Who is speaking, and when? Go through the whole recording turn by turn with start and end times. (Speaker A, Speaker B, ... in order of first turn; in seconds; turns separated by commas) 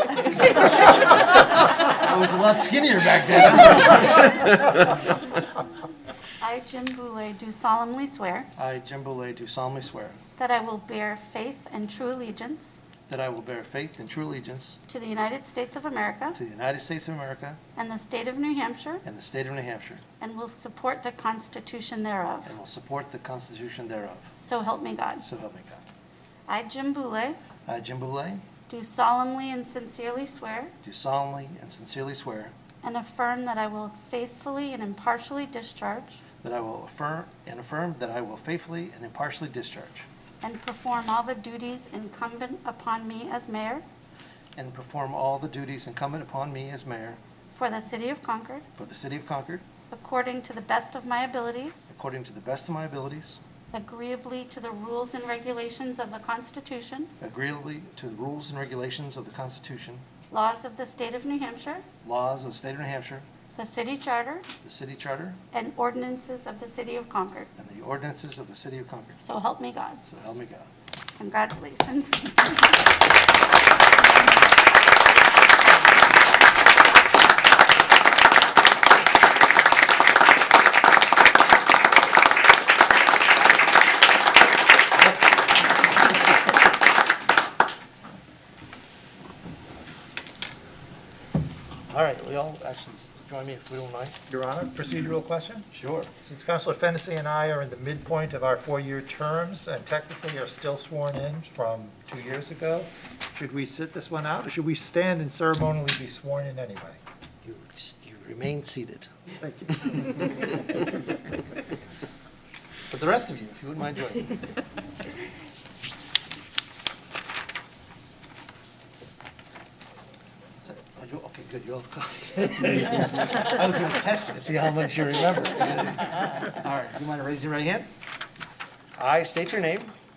Speaker A: 0.3-4.8, Speaker B: 6.4-8.5, Speaker A: 8.6-10.2, Speaker B: 10.4-12.8, Speaker A: 13.1-14.8, Speaker B: 14.9-16.4, Speaker A: 16.3-17.6, Speaker B: 17.8-19.0, Speaker A: 19.0-20.0, Speaker B: 20.2-22.5, Speaker A: 22.4-24.3, Speaker B: 24.4-25.2, Speaker A: 25.2-25.8, Speaker B: 26.5-27.4, Speaker A: 27.6-28.4, Speaker B: 28.7-30.7, Speaker A: 30.8-32.5, Speaker B: 32.8-36.2, Speaker A: 36.4-40.0, Speaker B: 40.4-43.8, Speaker A: 44.5-47.2, Speaker B: 47.5-48.6, Speaker A: 48.8-49.6, Speaker B: 49.9-51.9, Speaker A: 51.9-53.4, Speaker B: 53.7-57.1, Speaker A: 57.2-60.0, Speaker B: 60.3-61.8, Speaker A: 62.0-63.2, Speaker B: 63.5-64.5, Speaker A: 64.6-65.4, Speaker B: 65.5-67.5, Speaker A: 67.6-69.2, Speaker B: 69.2-70.0, Speaker A: 70.0-70.7, Speaker B: 71.2-72.8, Speaker A: 91.9-94.2, Speaker C: 94.3-107.0, Speaker A: 95.7-96.1, Speaker A: 107.4-109.2, Speaker C: 109.3-110.4, Speaker A: 109.9-110.1, Speaker A: 112.9-114.5, Speaker A: 120.6-127.9, Speaker A: 129.0-129.9